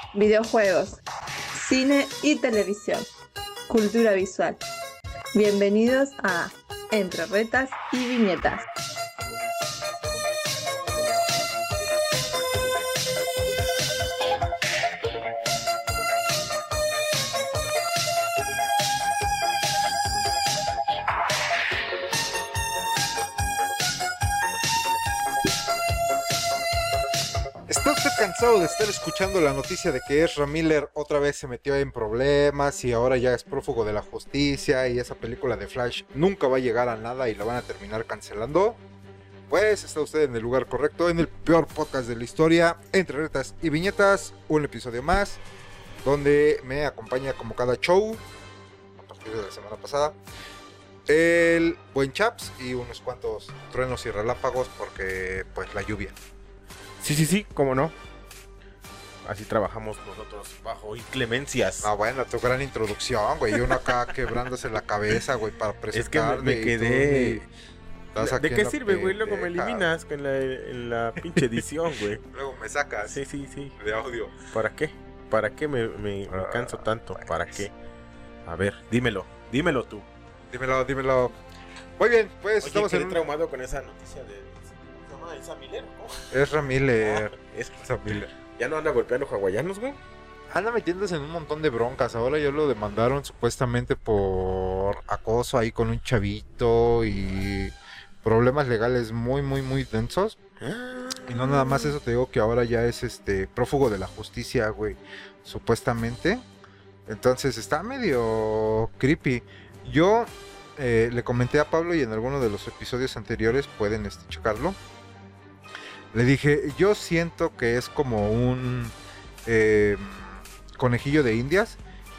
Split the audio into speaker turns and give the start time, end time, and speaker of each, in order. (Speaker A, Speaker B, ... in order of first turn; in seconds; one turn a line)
Speaker A: 0.1-1.0
Speaker A: 1.5-3.1
Speaker A: 3.7-4.6
Speaker A: 5.3-8.6
Speaker B: 27.7-38.8
Speaker B: 39.5-45.4
Speaker B: 46.0-48.2
Speaker B: 49.0-50.1
Speaker B: 51.0-56.1
Speaker C: 57.0-57.9
Speaker C: 59.2-61.9
Speaker B: 61.8-67.5
Speaker C: 63.7-64.1
Speaker C: 65.9-67.4
Speaker B: 68.1-69.9
Speaker C: 68.2-72.2
Speaker B: 72.2-73.2
Speaker C: 73.0-73.8
Speaker B: 73.8-74.3
Speaker C: 74.5-77.7
Speaker B: 76.3-77.5
Speaker C: 78.5-80.1
Speaker B: 80.5-81.4
Speaker B: 82.0-83.2
Speaker C: 82.6-86.3
Speaker B: 86.3-88.3
Speaker C: 87.0-90.0
Speaker B: 90.5-100.4
Speaker C: 100.6-102.0
Speaker B: 101.2-106.4
Speaker B: 107.0-114.8
Speaker B: 116.1-118.9
Speaker B: 119.5-121.8